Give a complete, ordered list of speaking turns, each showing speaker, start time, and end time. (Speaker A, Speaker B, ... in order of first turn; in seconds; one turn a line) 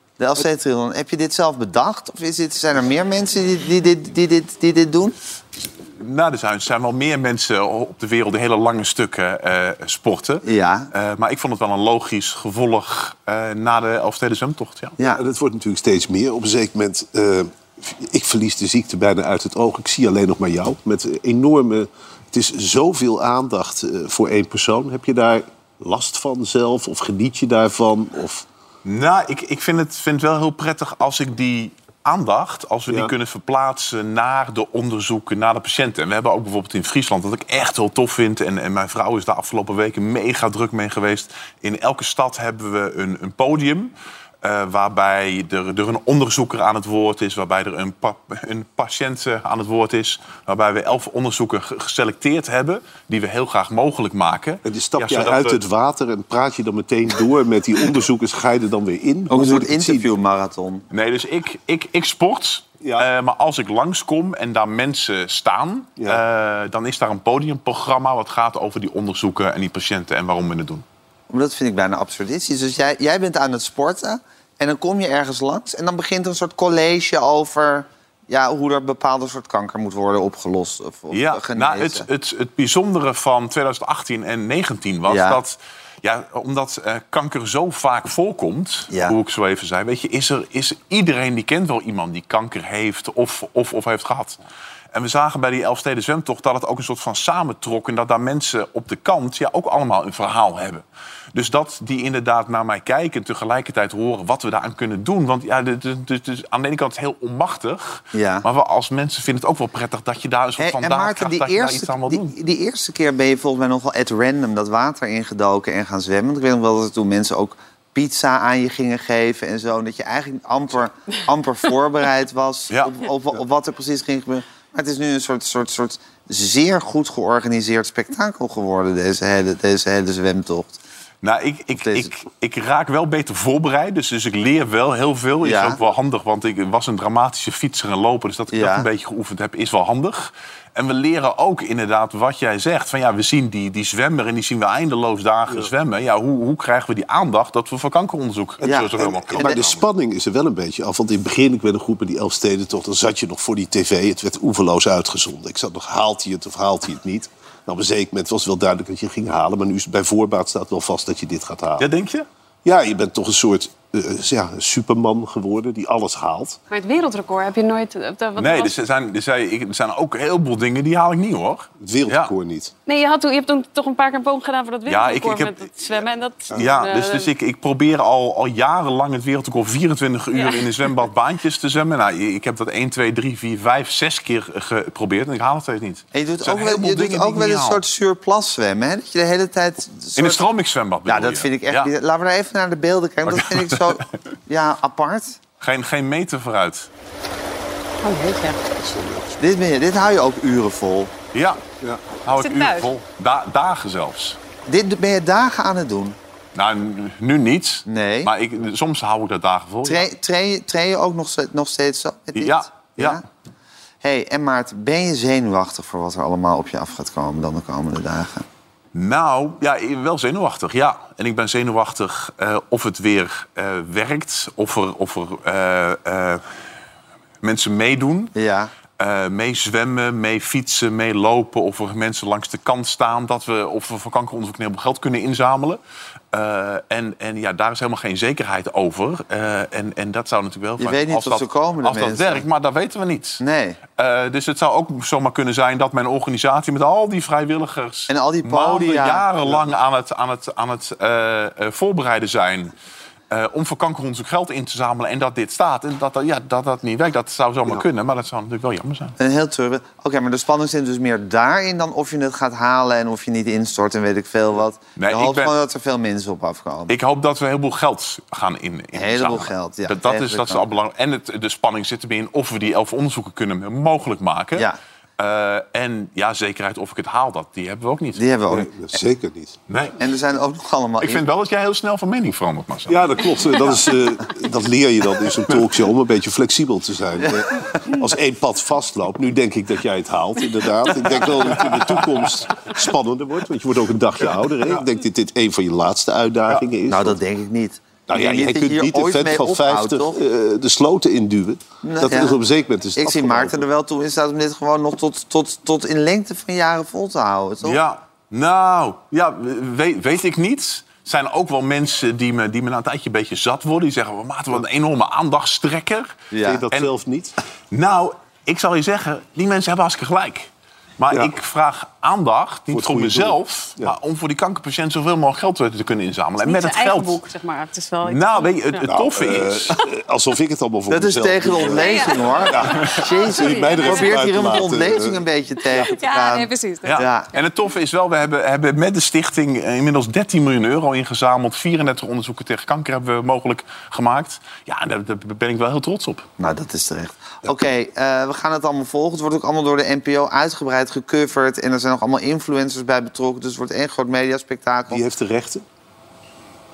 Speaker A: 0.2-5.1
Speaker B: 6.0-14.9
Speaker A: 10.4-10.9
Speaker C: 15.0-28.4
Speaker B: 28.8-43.9
Speaker B: 44.4-55.6
Speaker C: 54.6-60.1
Speaker A: 59.3-60.8
Speaker B: 60.9-70.8
Speaker C: 62.8-63.1
Speaker A: 71.3-82.1
Speaker B: 81.1-94.4
Speaker A: 85.1-85.4
Speaker A: 88.9-89.2
Speaker B: 94.9-112.3
Speaker A: 108.1-108.5
Speaker A: 110.6-130.8
Speaker B: 131.2-149.8
Speaker A: 131.8-132.1
Speaker A: 135.4-135.8
Speaker A: 138.5-138.8
Speaker A: 148.6-149.6
Speaker C: 148.7-161.9
Speaker B: 161.8-162.2
Speaker C: 162.6-166.6
Speaker D: 166.7-168.7
Speaker B: 168.4-172.3
Speaker C: 171.8-172.7
Speaker D: 172.9-177.3
Speaker B: 174.8-175.9
Speaker B: 176.5-187.8
Speaker D: 180.3-180.6
Speaker A: 186.1-190.4
Speaker B: 190.2-191.9
Speaker A: 191.1-195.4
Speaker B: 193.2-194.0
Speaker B: 195.6-196.9
Speaker D: 198.0-198.6
Speaker C: 198.8-199.3
Speaker A: 199.4-201.1
Speaker B: 201.3-201.6
Speaker B: 202.2-204.4
Speaker D: 202.4-202.9
Speaker A: 204.7-206.2
Speaker B: 206.6-210.1
Speaker A: 207.8-208.3
Speaker A: 209.8-213.2
Speaker B: 212.3-213.2
Speaker A: 214.0-218.4
Speaker B: 218.9-226.4
Speaker B: 227.4-228.3
Speaker A: 228.3-228.7
Speaker B: 229.0-235.8
Speaker B: 236.3-243.4
Speaker A: 240.8-242.4
Speaker A: 243.4-243.8
Speaker B: 244.0-252.7
Speaker A: 248.1-249.6
Speaker B: 253.3-259.1
Speaker A: 259.2-266.9
Speaker B: 265.0-265.5
Speaker B: 266.9-274.7
Speaker A: 268.9-270.6
Speaker B: 275.2-278.2
Speaker A: 278.1-278.7
Speaker C: 278.5-279.6
Speaker B: 279.7-280.0
Speaker A: 280.0-281.2
Speaker B: 281.0-283.7
Speaker C: 282.9-297.2
Speaker A: 296.9-300.1
Speaker C: 298.1-303.6
Speaker A: 301.8-302.4
Speaker A: 303.0-307.8
Speaker B: 307.6-316.9
Speaker A: 316.3-316.6
Speaker C: 316.4-317.3
Speaker B: 317.7-327.2
Speaker C: 322.7-323.9
Speaker D: 326.4-328.9
Speaker B: 328.0-329.7
Speaker C: 328.9-335.2
Speaker A: 330.9-337.3
Speaker D: 331.8-334.1
Speaker D: 335.8-337.1
Speaker B: 336.8-346.2
Speaker A: 346.4-355.0
Speaker C: 354.9-355.6